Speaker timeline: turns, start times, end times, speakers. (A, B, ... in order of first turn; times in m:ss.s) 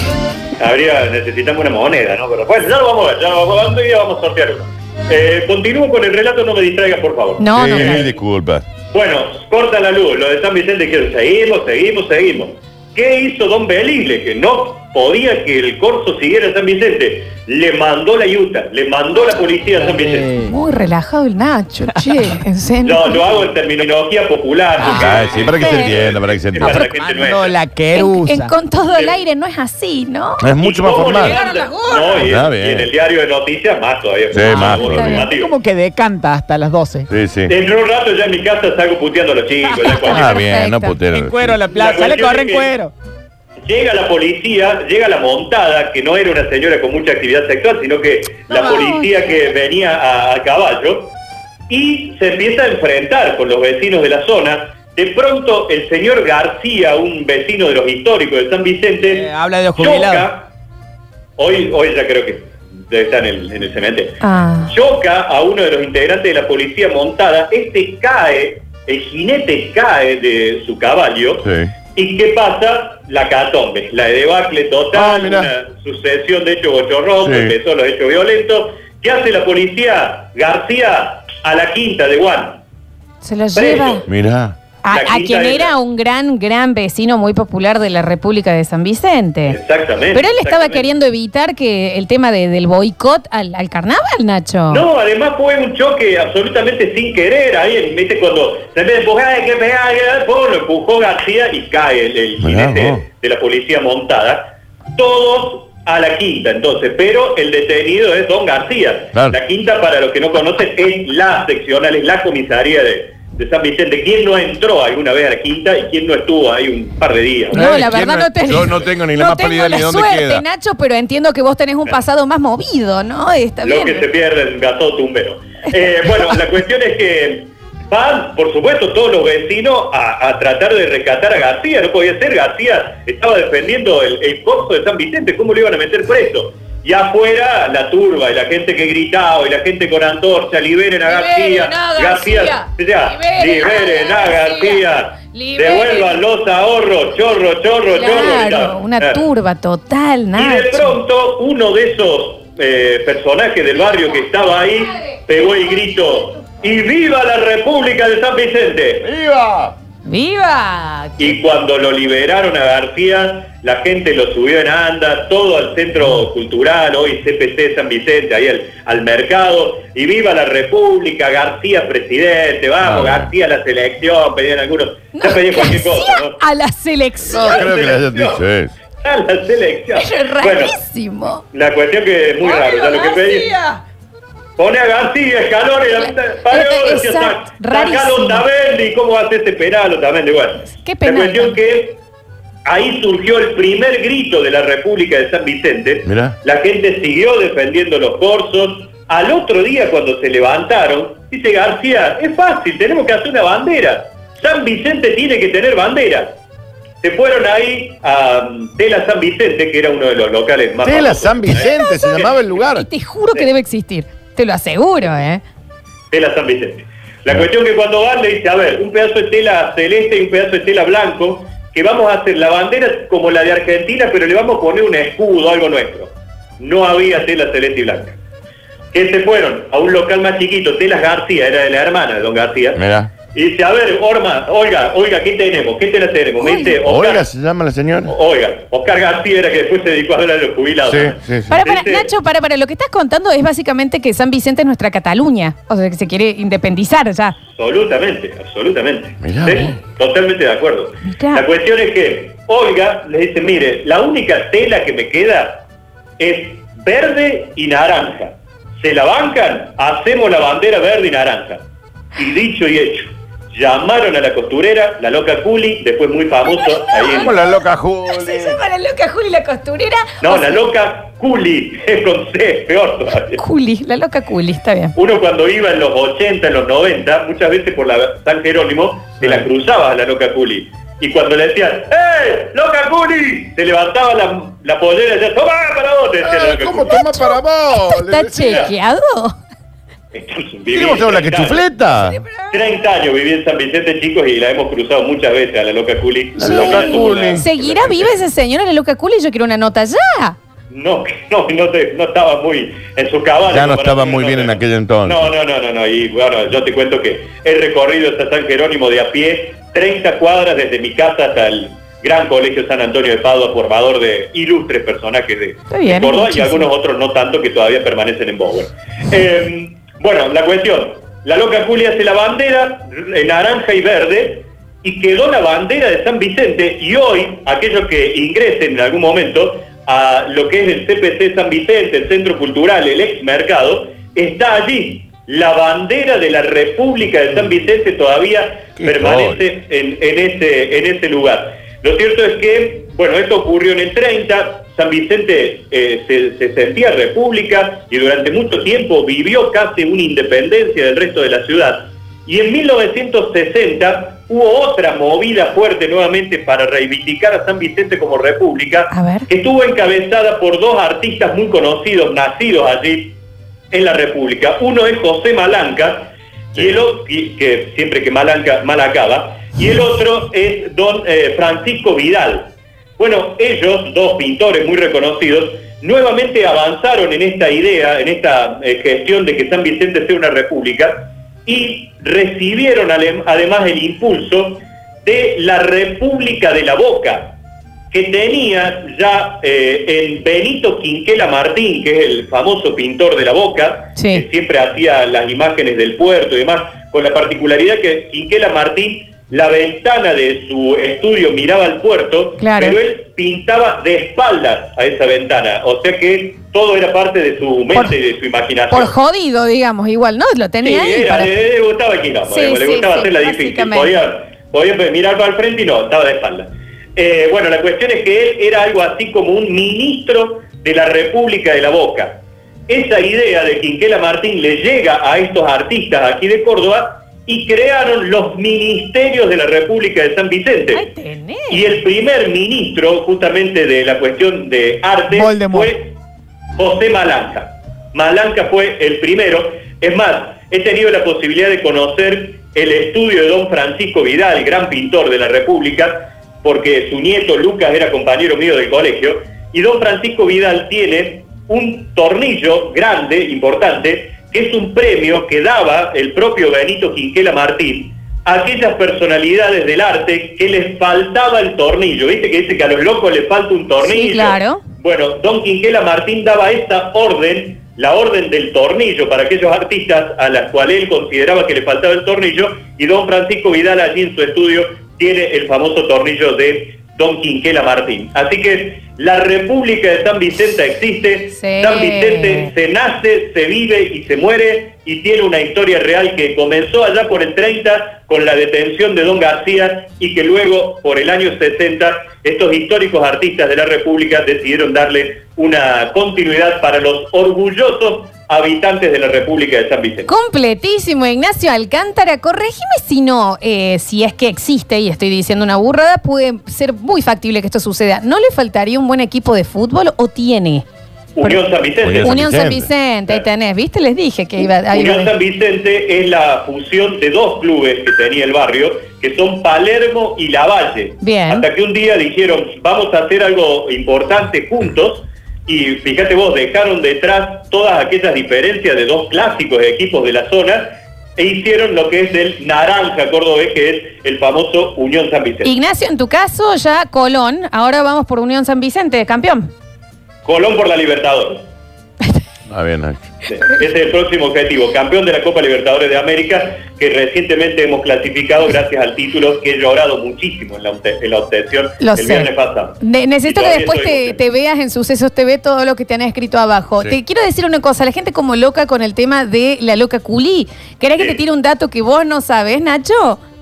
0:00.6-0:08.1 A
0:07.4-0:08.1 B
0:07.5-0:08.7 C
0:08.9-0:20.3 A
0:19.8-0:20.6 D
0:20.5-0:23.4 B
0:22.8-0:27.6 A
0:24.8-0:26.0 B
0:24.8-0:26.9 C
0:26.6-0:28.5 D
0:28.0-0:30.5 B
0:28.9-0:29.2 A
0:30.4-0:31.4 C
0:30.6-0:35.5 A
0:31.2-0:32.2 B
0:32.2-0:32.9 C
0:34.3-0:35.3 C
0:34.4-0:35.3 B
0:35.0-0:37.1 D
0:37.1-0:37.5 C
0:37.5-0:40.4 A
0:39.8-0:41.0 B
0:40.0-0:41.6 C
0:41.1-0:42.9 D
0:41.7-0:42.7 A
0:43.7-0:51.1 A
0:48.5-0:49.3 B
0:51.7-1:00.5 A
0:59.1-1:00.3 D
1:01.4-1:22.6 A
1:04.2-1:04.7 B
1:11.4-1:11.7 C
1:14.9-1:15.5 C
1:17.2-1:17.5 C
1:23.2-1:24.1 B
1:23.6-1:24.1 A
1:24.1-1:24.6 C
1:24.8-1:29.6 B
1:24.9-1:25.8 A
1:29.5-1:30.9 A
1:30.1-1:34.9 B
1:34.7-1:57.7 A
1:42.4-1:43.0 C
1:57.5-2:00.4 C
1:57.5-2:04.1 B
2:03.6-2:29.2 A
2:21.1-2:26.2 B
2:27.9-2:31.0 B
2:30.4-2:39.1 A
2:39.0-2:39.8 C
2:40.0-2:41.4 B
2:41.2-2:56.4 A
2:52.8-2:53.3 C
2:55.1-2:57.7 B
2:57.3-2:58.4 A
2:57.3-2:58.7 C
2:59.0-3:00.8 A
3:00.0-3:01.4 B
3:01.5-3:03.5 A
3:02.4-3:03.8 B
3:04.6-3:12.0 A
3:06.0-3:08.5 B
3:10.7-3:11.6 B
3:12.6-3:26.4 A
3:16.0-3:16.4 C
3:27.0-3:32.4 A
3:30.8-3:32.9 C
3:31.6-3:35.4 B
3:36.1-3:48.2 A
3:48.9-3:52.8 A
3:52.7-3:53.1 C
3:53.3-3:57.3 A
3:56.4-3:56.7 B
3:56.8-3:58.1 C
3:58.1-4:02.1 A
4:00.8-4:01.6 C
4:01.5-4:07.4 B
4:07.6-4:15.6 A
4:09.2-4:09.7 C
4:11.0-4:11.4 B
4:16.2-4:21.6 A
4:22.2-4:27.3 A
4:26.6-4:27.4 B
4:27.0-4:28.6 C
4:28.1-4:30.6 B
4:30.2-4:33.4 A
4:33.4-4:35.0 B
4:35.0-4:47.0 A
4:39.2-4:39.5 C
4:46.2-4:48.7 C
4:46.9-4:49.4 B
4:48.4-4:48.7 A
4:50.1-4:51.6 A
4:50.7-4:52.2 C
4:52.1-4:52.5 B
4:52.5-4:58.1 A
4:56.4-4:57.4 C
4:56.4-5:00.4 B
5:00.7-6:03.2 A
5:03.5-5:05.3 C
5:15.7-5:16.7 B
5:38.8-5:39.4 C
5:58.9-5:59.3 B
6:03.7-6:27.3 A
6:27.9-6:48.9 A
6:34.0-6:34.2 B
6:42.4-6:42.8 B
6:48.7-6:51.3 B
6:50.6-7:10.9 A
6:52.3-6:53.9 B
7:10.7-7:11.6 B
7:11.5-7:15.9 A
7:15.1-7:15.7 D
7:16.6-8:20.1 A
7:43.8-7:44.6 B
8:01.4-8:02.5 B
8:20.1-8:30.6 B
8:31.2-8:32.2 A
8:31.8-8:32.7 C
8:32.0-8:35.1 B
8:34.7-8:55.5 A
8:41.0-8:41.5 B
8:55.4-8:59.5 B
9:00.2-9:01.4 A
9:02.5-9:03.0 C
9:03.3-9:14.2 A
9:11.8-9:23.2 B